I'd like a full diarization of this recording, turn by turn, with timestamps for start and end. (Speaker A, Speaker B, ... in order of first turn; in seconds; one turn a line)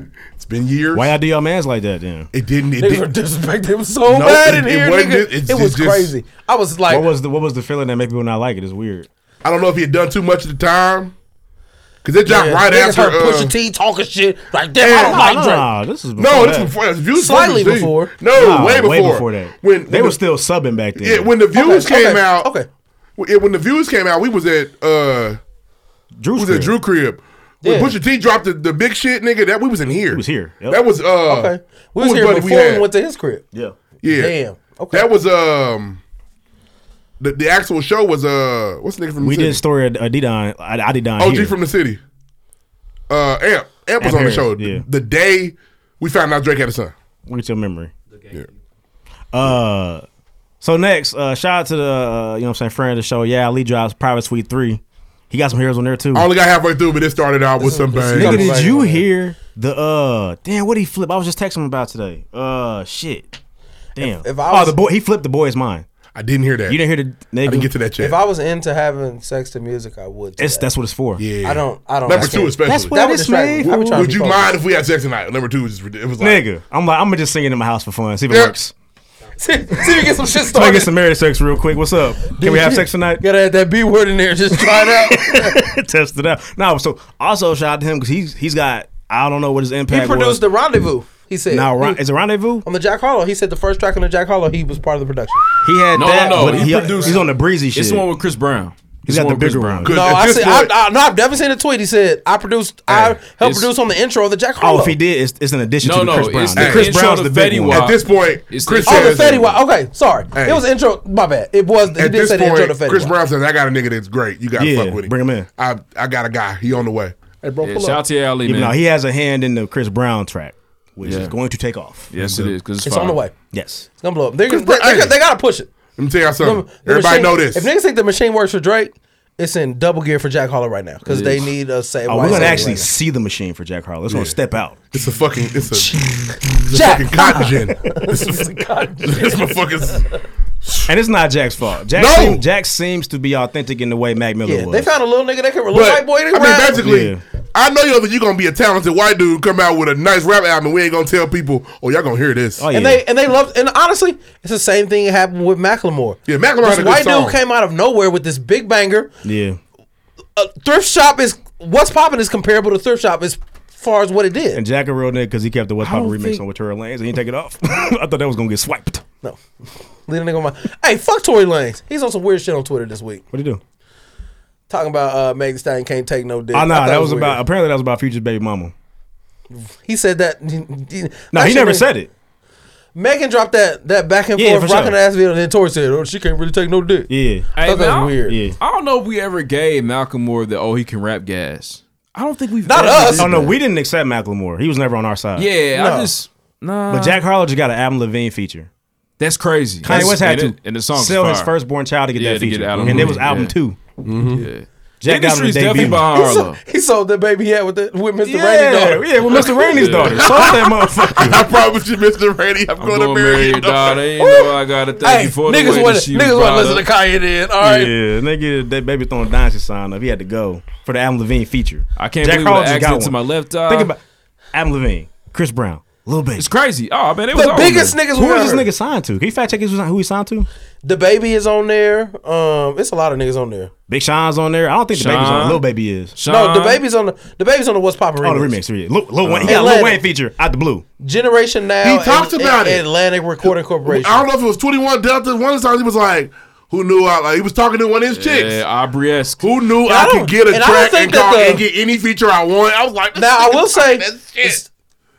Speaker A: 0.4-1.1
Speaker B: 0.9-2.3
Speaker A: 2.3-3.1
Speaker C: 2.8-7.1
Speaker A: 4.1-6.1
Speaker B: 6.9-9.1
Speaker A: 9.4-11.1
Speaker A: 12.0-13.5
Speaker C: 12.2-15.6
Speaker A: 14.8-15.3
Speaker B: 14.9-16.7
Speaker A: 16.2-20.2
Speaker C: 17.1-18.2
Speaker B: 18.3-21.3
Speaker A: 21.0-22.5
Speaker C: 21.6-22.7
Speaker A: 23.2-25.4
Speaker B: 26.2-26.8
Speaker A: 26.4-32.9
Speaker C: 27.6-28.0
Speaker B: 30.1-30.8
Speaker C: 31.2-33.5
Speaker A: 34.0-34.4
Speaker C: 34.0-35.1
Speaker A: 34.9-36.0
Speaker A: 37.2-39.6
Speaker B: 39.2-41.5
Speaker A: 41.2-42.0
Speaker A: 43.1-46.9
Speaker B: 44.0-44.9
Speaker B: 47.3-47.9
Speaker B: 49.3-50.0
Speaker B: 50.6-56.3
Speaker A: 56.1-58.7
Speaker C: 57.6-59.0
Speaker B: 58.1-63.4
Speaker B: 64.0-65.9
Speaker C: 64.0-64.8
Speaker A: 66.1-66.8
Speaker B: 66.7-67.7
Speaker A: 67.5-68.2
Speaker C: 68.0-70.7
Speaker B: 70.4-71.2
Speaker A: 71.2-73.0
Speaker C: 71.4-74.6
Speaker B: 72.1-74.1
Speaker A: 73.6-76.4
Speaker B: 76.2-78.7
Speaker C: 79.4-80.9
Speaker B: 80.5-83.2
Speaker C: 82.4-85.6
Speaker B: 84.5-90.4
Speaker C: 89.9-92.0
Speaker B: 91.5-92.7
Speaker C: 92.6-95.5
Speaker B: 95.6-98.1
Speaker D: 96.0-99.9
Speaker C: 96.3-97.0
Speaker B: 99.1-100.0
Speaker A: 99.8-100.7
Speaker C: 99.9-105.0
Speaker D: 103.4-103.7
Speaker B: 104.6-107.9
Speaker D: 105.8-109.2
Speaker A: 106.6-107.0
Speaker A: 107.7-109.6
Speaker C: 108.8-113.2
Speaker A: 110.3-110.7
Speaker A: 111.9-118.0
Speaker B: 114.6-115.5
Speaker D: 117.6-118.8
Speaker B: 118.5-122.1
Speaker D: 121.0-121.3
Speaker D: 122.1-123.2
Speaker A: 122.2-122.5
Speaker C: 122.8-123.3
Speaker B: 123.5-123.9
Speaker C: 124.0-125.7
Speaker A: 124.5-125.2
Speaker A: 126.0-127.7
Speaker C: 126.4-132.9
Speaker D: 131.1-131.4
Speaker B: 132.1-134.8
Speaker A: 132.2-132.7
Speaker A: 134.1-134.3
Speaker A: 134.9-138.5
Speaker C: 135.7-140.0
Speaker A: 139.0-140.0
Speaker A: 140.6-140.9
Speaker B: 140.9-144.9
Speaker A: 141.9-142.4
Speaker C: 144.4-146.8
Speaker A: 145.7-152.7
Speaker B: 146.8-147.2
Speaker B: 152.6-153.0
Speaker C: 152.7-159.1
Speaker A: 156.3-157.4
Speaker B: 159.2-159.6
Speaker C: 160.4-164.6
Speaker B: 164.5-169.0
Speaker C: 165.8-166.4
Speaker C: 170.1-173.2
Speaker B: 173.3-173.6
Speaker C: 174.7-177.4
Speaker B: 176.5-178.7
Speaker C: 179.5-181.9
Speaker B: 181.3-182.1
Speaker C: 182.9-188.4
Speaker B: 184.3-185.0
Speaker B: 187.1-187.5
Speaker D: 187.6-193.6
Speaker B: 188.3-188.6
Speaker C: 192.7-193.5
Speaker B: 193.2-195.5
Speaker D: 195.4-197.2
Speaker C: 195.7-196.1
Speaker B: 196.9-198.7
Speaker D: 199.2-201.5
Speaker B: 199.8-203.8
Speaker D: 202.2-203.6
Speaker A: 202.8-203.2
Speaker A: 204.1-204.5
Speaker D: 204.2-206.6
Speaker B: 205.0-206.1
Speaker C: 205.8-211.4
Speaker B: 208.2-211.5
Speaker D: 209.7-210.3
Speaker A: 211.2-214.1
Speaker D: 212.7-216.8
Speaker C: 214.2-217.9
Speaker B: 217.6-224.0
Speaker D: 222.0-223.9
Speaker B: 224.5-226.5
Speaker D: 226.4-228.0
Speaker C: 227.3-228.7
Speaker B: 228.1-230.5
Speaker C: 230.8-233.7
Speaker B: 233.9-236.2
Speaker D: 234.9-235.6
Speaker D: 236.2-236.8
Speaker C: 236.2-238.6
Speaker B: 238.2-240.8
Speaker C: 239.4-240.0
Speaker C: 241.0-244.3
Speaker A: 241.8-242.9
Speaker A: 243.8-248.6
Speaker D: 248.1-249.5
Speaker A: 249.4-254.6
Speaker C: 249.8-251.7
Speaker C: 253.2-254.7